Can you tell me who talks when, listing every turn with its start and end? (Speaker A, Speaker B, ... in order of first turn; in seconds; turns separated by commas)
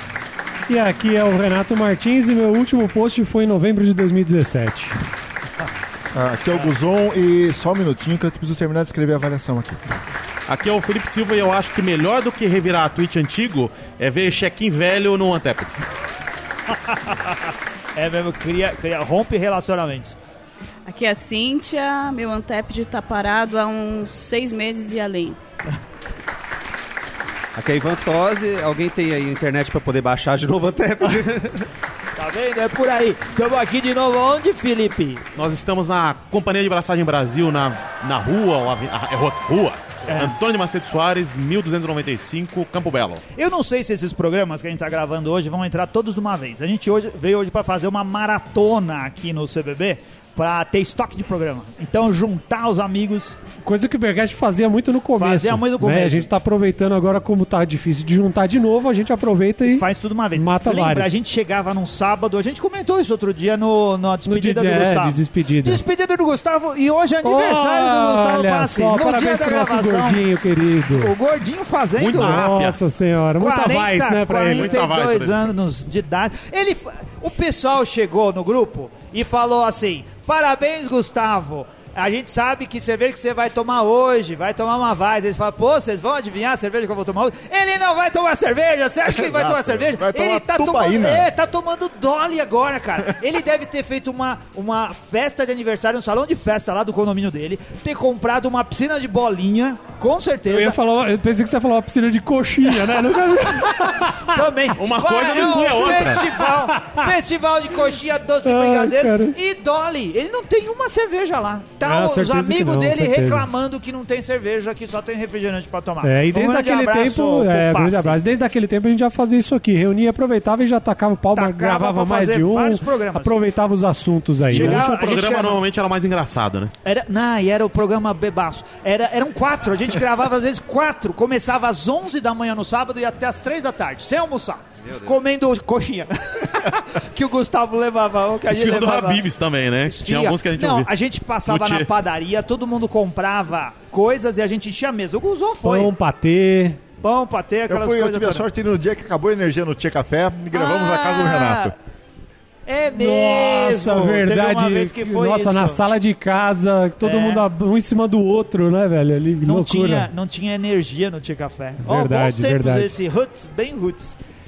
Speaker A: 0.7-5.0, Speaker B: 6.1-9.8, Speaker C: 10.5-15.8, Speaker D: 16.7-20.1, Speaker E: 20.9-25.4, Speaker F: 27.6-31.6, Speaker D: 32.1-35.2, Speaker C: 35.3-43.2, Speaker D: 40.1-40.3, Speaker D: 43.3-53.4, Speaker A: 53.6-61.1, Speaker D: 55.2-56.3, Speaker D: 59.7-70.2, Speaker A: 64.2-65.8, Speaker A: 67.2-71.1, Speaker D: 70.9-72.6, Speaker C: 72.0-72.8, Speaker A: 72.1-74.8, Speaker D: 73.4-100.8, Speaker C: 74.5-75.5, Speaker B: 89.1-91.3, Speaker A: 100.5-104.4, Speaker D: 102.9-118.2, Speaker C: 104.8-106.3, Speaker A: 105.3-107.1, Speaker A: 108.4-109.4, Speaker A: 111.8-113.5, Speaker A: 116.0-124.8, Speaker D: 121.3-123.4, Speaker D: 124.5-125.6, Speaker C: 124.5-126.7, Speaker D: 126.8-139.2, Speaker F: 134.8-135.3, Speaker C: 138.5-140.9, Speaker D: 139.8-145.9, Speaker C: 141.4-141.9, Speaker A: 145.6-146.8, Speaker D: 147.0-148.4, Speaker B: 147.7-151.7, Speaker D: 150.5-151.7, Speaker D: 152.7-155.8, Speaker A: 152.9-160.1, Speaker D: 157.0-157.4, Speaker D: 159.4-164.2, Speaker A: 161.8-162.9